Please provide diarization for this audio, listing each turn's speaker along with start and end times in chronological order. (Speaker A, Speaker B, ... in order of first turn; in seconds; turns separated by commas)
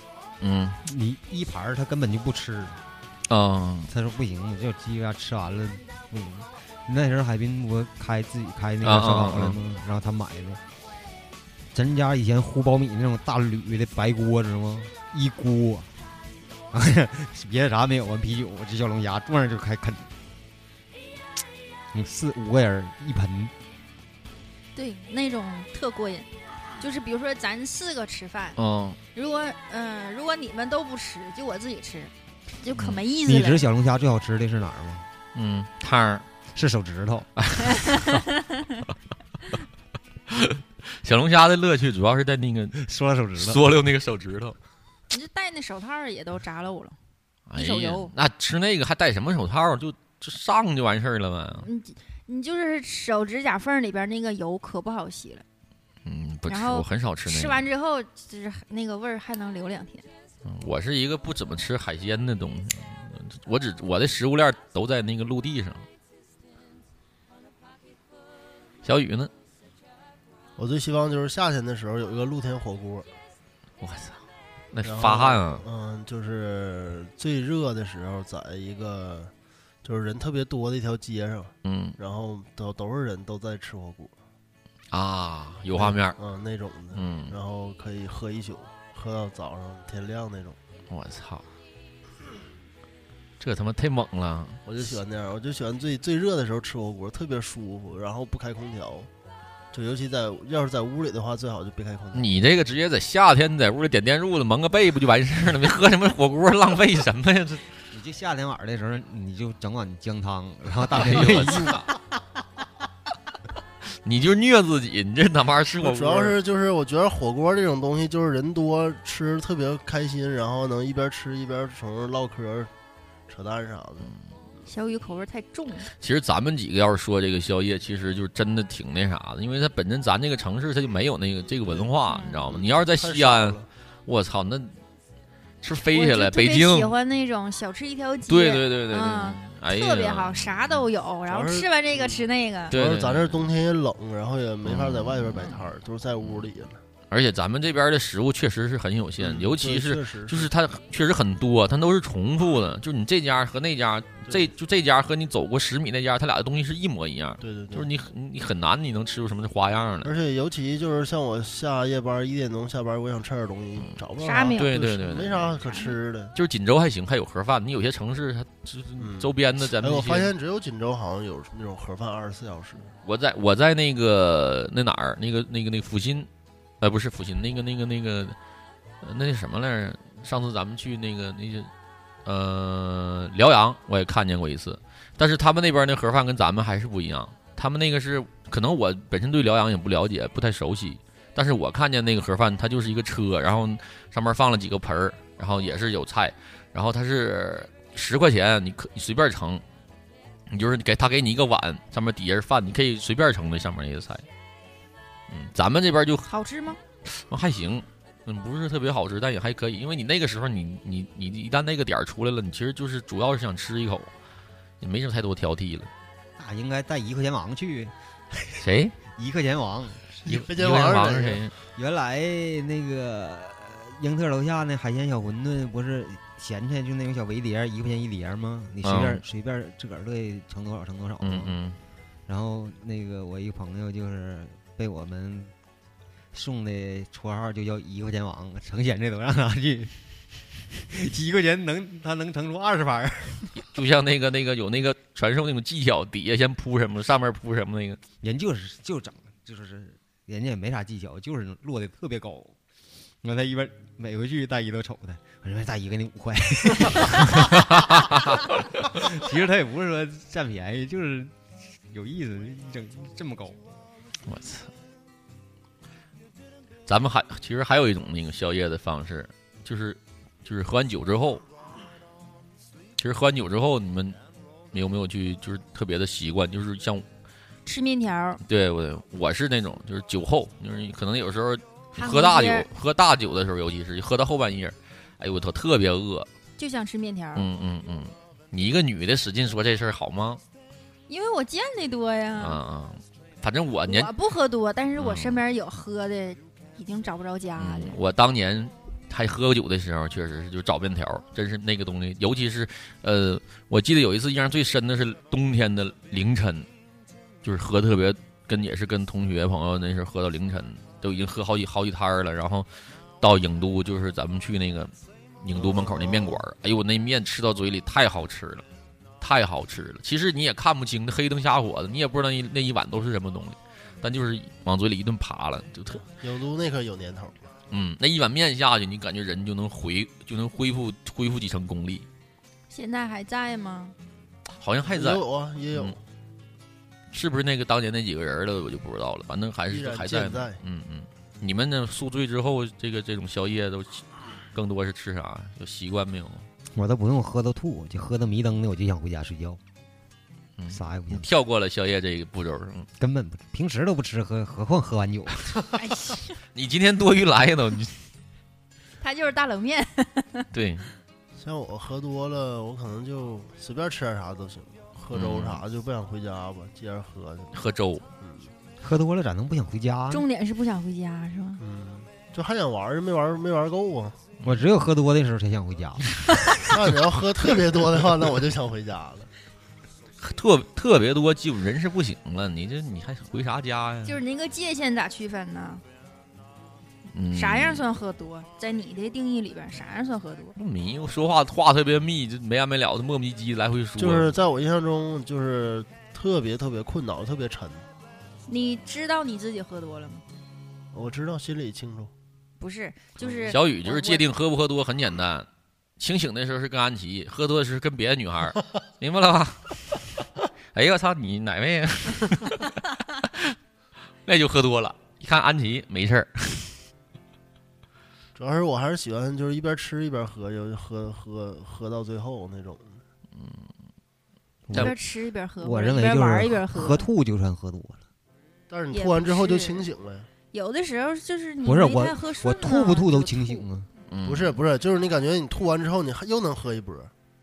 Speaker A: 0.4-0.8, Speaker B: 0.8-2.8, Speaker A: 3.3-3.9, Speaker B: 3.9-10.6, Speaker A: 8.8-9.6, Speaker B: 11.7-15.9, Speaker B: 16.7-20.1, Speaker B: 21.9-23.5, Speaker C: 24.7-26.3, Speaker C: 26.8-28.6, Speaker A: 28.6-29.0, Speaker C: 29.1-33.6, Speaker B: 33.2-35.1, Speaker A: 35.3-36.2, Speaker B: 36.5-37.3, Speaker A: 37.4-38.2, Speaker C: 37.7-38.8, Speaker A: 40.3-42.8, Speaker B: 42.8-43.6, Speaker A: 43.4-44.6, Speaker C: 45.1-47.0, Speaker A: 47.5-51.7, Speaker C: 47.6-48.1, Speaker C: 51.6-55.4, Speaker A: 56.0-57.6, Speaker C: 56.5-60.1, Speaker A: 60.4-65.8, Speaker A: 68.8-69.3, Speaker D: 70.6-73.1, Speaker A: 73.8-74.2, Speaker A: 74.7-75.6, Speaker D: 74.8-79.3, Speaker D: 79.8-84.1, Speaker A: 81.6-82.0, Speaker A: 84.9-86.2, Speaker D: 85.7-90.6, Speaker A: 86.9-87.3, Speaker A: 90.9-91.5, Speaker A: 93.4-94.6, Speaker D: 94.7-99.1, Speaker D: 99.7-102.3, Speaker A: 102.1-107.7, Speaker B: 107.9-112.0, Speaker A: 110.9-111.9, Speaker A: 114.0-116.4, Speaker D: 115.8-122.7, Speaker D: 123.3-124.1, Speaker C: 124.7-125.9, Speaker A: 126.0-134.7, Speaker C: 132.1-132.4, Speaker D: 132.5-133.7, Speaker A: 135.6-136.9, Speaker C: 135.9-142.7, Speaker A: 138.3-140.8, Speaker D: 141.3-146.8, Speaker A: 142.7-143.5, Speaker A: 144.6-145.7, Speaker A: 146.2-146.5, Speaker A: 147.1-160.1, Speaker D: 149.2-150.5, Speaker D: 157.4-157.9, Speaker D: 160.0-166.3, Speaker C: 164.2-164.7, Speaker A: 164.6-165.5, Speaker C: 165.6-165.9, Speaker A: 166.3-170.3, Speaker D: 169.0-172.9, Speaker A: 173.0-176.3, Speaker A: 176.8-178.3, Speaker A: 179.0-181.7, Speaker A: 182.2-199.6, Speaker A: 200.5-204.2, Speaker A: 205.3-206.3, Speaker C: 206.3-206.8, Speaker A: 207.0-214.1, Speaker A: 214.8-215.9, Speaker B: 216.4-220.1, Speaker A: 218.6-218.9, Speaker D: 220.2-221.5, Speaker A: 220.2-221.5, Speaker B: 221.8-231.5, Speaker A: 228.8-229.2, Speaker A: 231.2-231.8, Speaker B: 232.3-235.5, Speaker B: 236.3-239.9, Speaker B: 240.7-243.5, Speaker A: 243.5-248.0, Speaker B: 248.2-252.6, Speaker B: 253.2-258.3, Speaker A: 257.4-258.5, Speaker B: 258.8-261.3, Speaker B: 261.9-263.6, Speaker A: 264.3-264.7, Speaker A: 266.9-271.4, Speaker A: 273.0-274.2, Speaker A: 274.7-277.0, Speaker C: 277.6-278.4, Speaker A: 278.4-286.3, Speaker C: 281.9-282.7, Speaker C: 286.6-287.4, Speaker A: 287.4-290.4, Speaker C: 291.1-292.6, Speaker A: 292.4-294.1, Speaker C: 293.9-298.0, Speaker A: 295.0-295.4, Speaker A: 297.6-306.7, Speaker A: 307.4-312.7, Speaker A: 313.2-318.6, Speaker D: 315.5-316.4, Speaker A: 319.2-326.0, Speaker D: 326.1-327.5, Speaker A: 327.7-332.1, Speaker C: 332.7-333.9, Speaker A: 334.6-335.9, Speaker D: 334.9-336.0, Speaker A: 337.1-346.5, Speaker D: 339.7-340.6, Speaker B: 346.7-349.6, Speaker A: 350.6-352.9, Speaker B: 350.7-351.3, Speaker B: 353.0-355.5, Speaker C: 355.8-356.3, Speaker A: 356.5-358.0, Speaker C: 359.0-360.5, Speaker A: 360.5-360.9, Speaker D: 361.4-367.5, Speaker A: 365.1-365.6, Speaker A: 367.5-368.1, Speaker D: 368.2-368.5, Speaker B: 368.8-370.2, Speaker C: 370.1-371.6, Speaker D: 371.6-374.2, Speaker B: 374.4-376.0, Speaker D: 376.6-379.3, Speaker A: 380.2-384.2, Speaker C: 384.1-385.8, Speaker A: 387.1-387.8, Speaker C: 387.3-390.5, Speaker A: 390.6-394.4, Speaker D: 394.0-397.9, Speaker C: 398.5-400.2, Speaker D: 400.9-402.1, Speaker C: 402.6-404.2, Speaker D: 403.2-403.5, Speaker A: 403.5-405.5, Speaker A: 406.0-410.0, Speaker A: 410.7-413.6, Speaker A: 414.2-416.8, Speaker D: 418.4-423.0, Speaker A: 423.4-423.6, Speaker B: 424.7-424.9, Speaker C: 424.7-427.1, Speaker B: 425.6-428.0, Speaker D: 428.7-430.3, Speaker C: 428.9-429.8, Speaker C: 430.5-433.6, Speaker B: 431.6-433.9, Speaker A: 434.1-434.6, Speaker D: 434.2-437.1